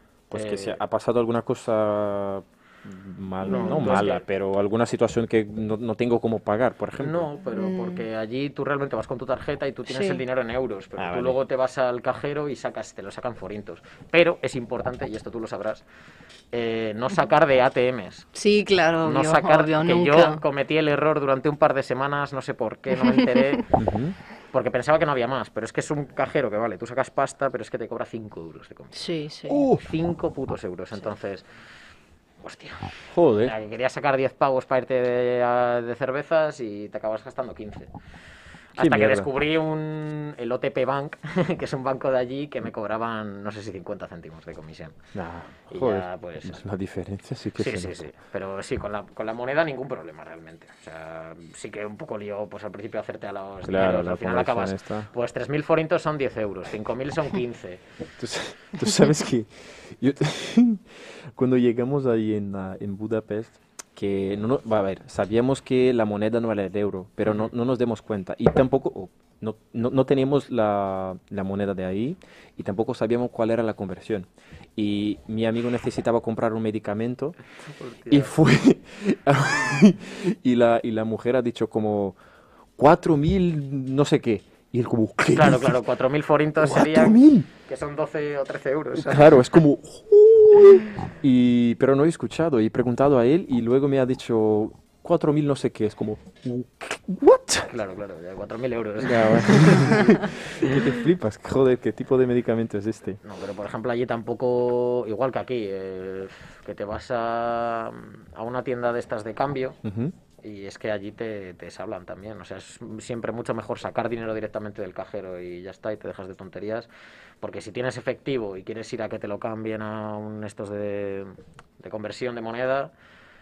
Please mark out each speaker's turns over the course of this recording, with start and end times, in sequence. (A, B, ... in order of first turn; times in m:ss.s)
0:00.3-0:07.3 A
0:00.3-0:00.8 B
0:03.4-0:03.9 C
0:03.4-0:04.2 B
0:07.0-0:15.8 B
0:07.5-0:08.0 C
0:09.9-0:10.2 C
0:11.0-0:11.4 A
0:16.5-0:18.3 B
0:18.3-0:20.4 C
0:19.0-0:23.7 B
0:23.0-0:23.6 C
0:23.8-0:24.2 A
0:24.5-0:28.9 B
0:28.9-0:29.6 C
0:29.5-0:29.8 A
0:29.8-0:31.4 B
0:32.4-0:37.9 B
0:33.1-0:33.5 A
0:38.8-0:39.3 A
0:38.8-0:45.0 B
0:45.1-0:48.0 A
0:45.7-0:46.6 B
0:47.6-0:57.8 B
0:53.6-0:55.1 A
0:58.2-1:17.4 A
1:17.8-1:18.3 B
1:18.1-1:22.2 A
1:22.8-1:25.8 A
1:25.3-1:29.3 B
1:26.6-1:27.5 A
1:28.9-1:37.7 A
1:37.7-1:40.7 B
1:39.0-1:43.2 A
1:43.2-1:49.8 B
1:49.8-1:50.1 A
1:50.4-1:56.9 B
1:57.4-2:02.9 B